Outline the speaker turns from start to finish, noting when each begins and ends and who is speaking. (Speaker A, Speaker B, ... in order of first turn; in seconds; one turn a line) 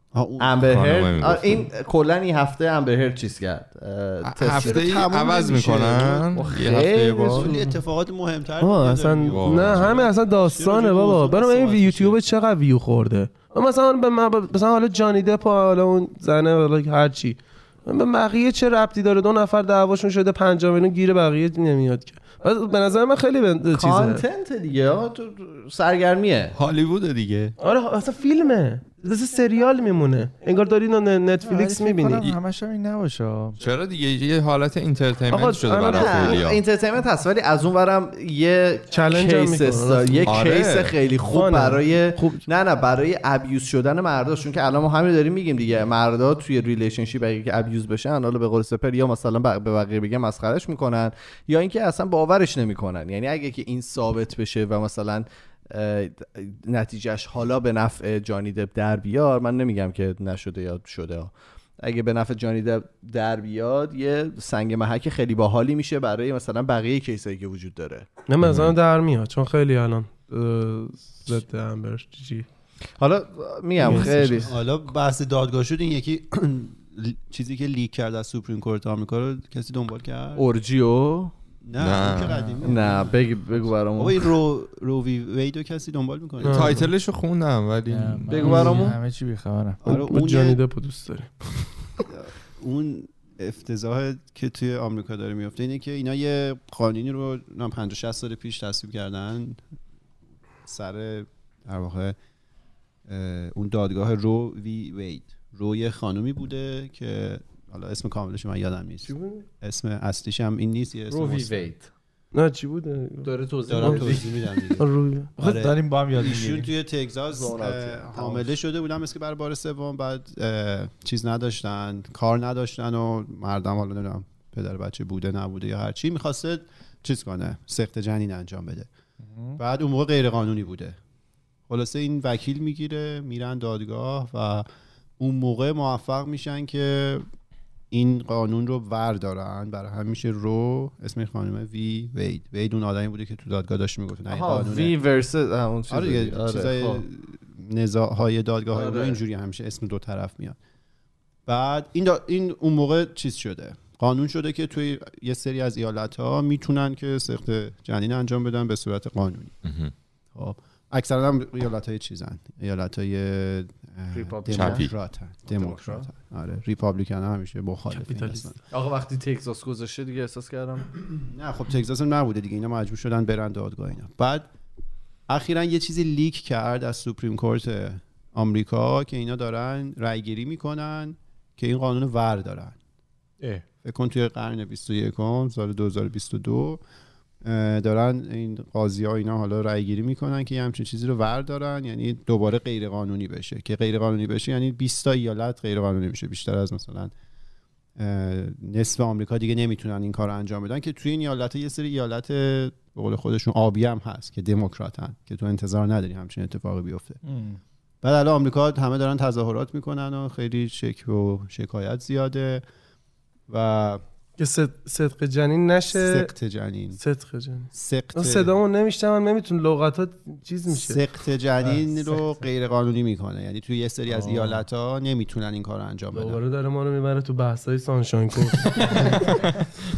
Speaker A: 0.1-1.0
Speaker B: 0.4-5.0
Speaker C: 0.7-1.6
Speaker C: 4.2-7.5
Speaker A: 4.6-6.4
Speaker B: 6.3-7.7
Speaker A: 7.3-12.2
Speaker D: 8.6-24.2
Speaker C: 9.3-10.0
Speaker B: 23.7-26.6
Speaker C: 26.6-27.5
Speaker D: 27.6-32.3
Speaker E: 31.4-33.6
Speaker C: 33.6-36.6
Speaker D: 35.3-36.4
Speaker B: 35.9-68.1
Speaker D: 38.9-40.5
Speaker C: 40.2-40.9
Speaker D: 41.3-42.4
Speaker D: 68.3-72.5
Speaker C: 68.4-68.8
Speaker B: 73.0-74.5
Speaker D: 73.8-74.5
Speaker A: 73.8-80.5
Speaker B: 80.3-81.3
Speaker A: 81.6-83.2
Speaker C: 81.8-82.4
Speaker E: 82.2-82.7
Speaker B: 82.6-84.2
Speaker A: 84.0-86.9
Speaker D: 86.4-86.8
Speaker C: 86.4-88.5
Speaker E: 87.9-89.8
Speaker B: 88.3-89.0
Speaker D: 88.4-88.8
Speaker A: 89.8-90.6
Speaker D: 89.9-91.5
Speaker A: 92.1-99.6
Speaker A: 100.6-102.2
Speaker A: 103.1-111.7
Speaker D: 109.0-109.4
Speaker B: 111.1-111.9
Speaker D: 112.3-114.2
Speaker B: 113.3-114.2
Speaker A: 113.7-128.9
Speaker D: 114.8-115.4
Speaker E: 115.4-116.7
Speaker B: 117.3-118.5
Speaker E: 129.2-129.6
Speaker A: 129.6-131.0
Speaker A: 131.7-134.7
Speaker A: 135.2-137.2
Speaker A: 137.9-145.0
Speaker B: 144.3-147.0
Speaker A: 145.9-150.6
Speaker B: 148.7-149.2
Speaker A: 151.5-159.5
Speaker C: 159.6-159.9
Speaker A: 160.3-168.6
Speaker B: 164.1-164.9
Speaker C: 164.5-164.9
Speaker B: 165.5-166.1
Speaker D: 167.9-168.5
Speaker B: 168.7-170.9
Speaker A: 171.2-174.5
Speaker A: 175.3-182.8
Speaker A: 183.8-186.8
Speaker A: 187.4-197.1
Speaker A: 198.0-207.2
Speaker E: 207.2-207.6
Speaker A: 208.0-212.6
Speaker A: 213.5-214.0
Speaker D: 214.4-216.3
Speaker A: 215.9-217.0
Speaker D: 217.0-221.0
Speaker A: 217.7-218.5
Speaker A: 220.7-226.4
Speaker E: 224.1-224.6
Speaker D: 226.1-229.4
Speaker C: 228.9-229.6